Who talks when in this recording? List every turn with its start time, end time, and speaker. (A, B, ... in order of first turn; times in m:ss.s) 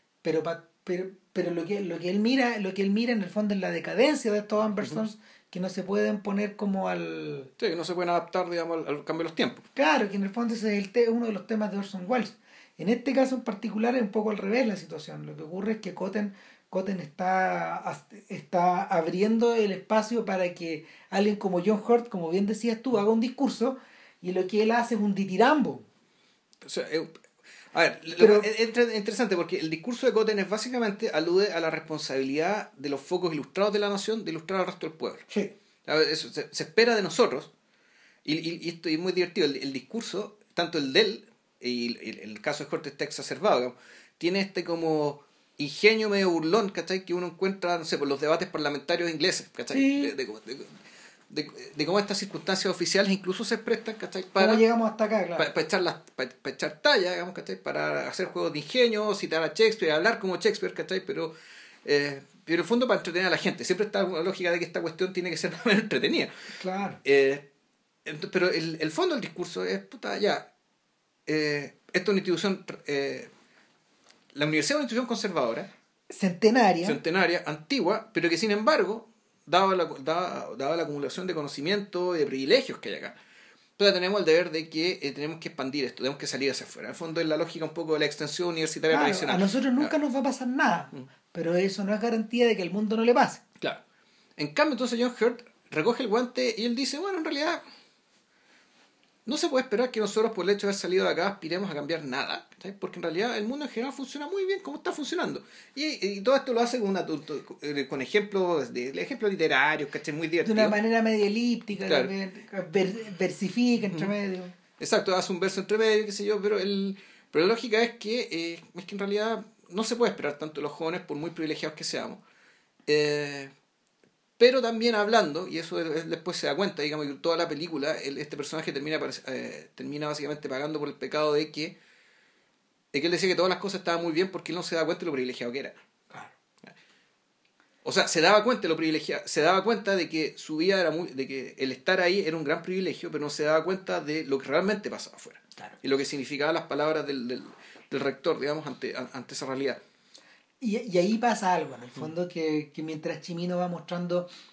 0:00.2-0:07.5 A
0:07.6-0:09.6 B
0:09.8-0:25.8 A
0:26.6-0:27.1 B
0:27.7-0:35.3 B
0:28.2-0:28.5 A
0:35.8-0:37.5 B
0:38.2-0:54.6 B
0:49.7-0:50.1 A
0:54.4-0:55.5 A
0:55.4-1:01.3 B
1:01.8-1:06.3 B
1:06.6-1:07.0 A
1:07.0-1:07.4 B
1:08.0-1:10.5 B
1:11.2-1:13.3 B
1:14.3-1:15.7 B
1:16.1-1:17.0 A
1:16.8-1:23.2 B
1:23.8-1:29.9 B
1:28.9-1:33.4 A
1:34.4-1:37.6 B
1:39.2-1:50.8 B
1:50.4-1:54.5 A
1:51.9-1:52.1 B
1:54.8-2:02.2 B
2:02.9-2:03.5 B
2:04.4-2:11.7 B
2:12.9-2:15.7 B
2:17.8-2:29.8 B
2:30.6-2:34.3 A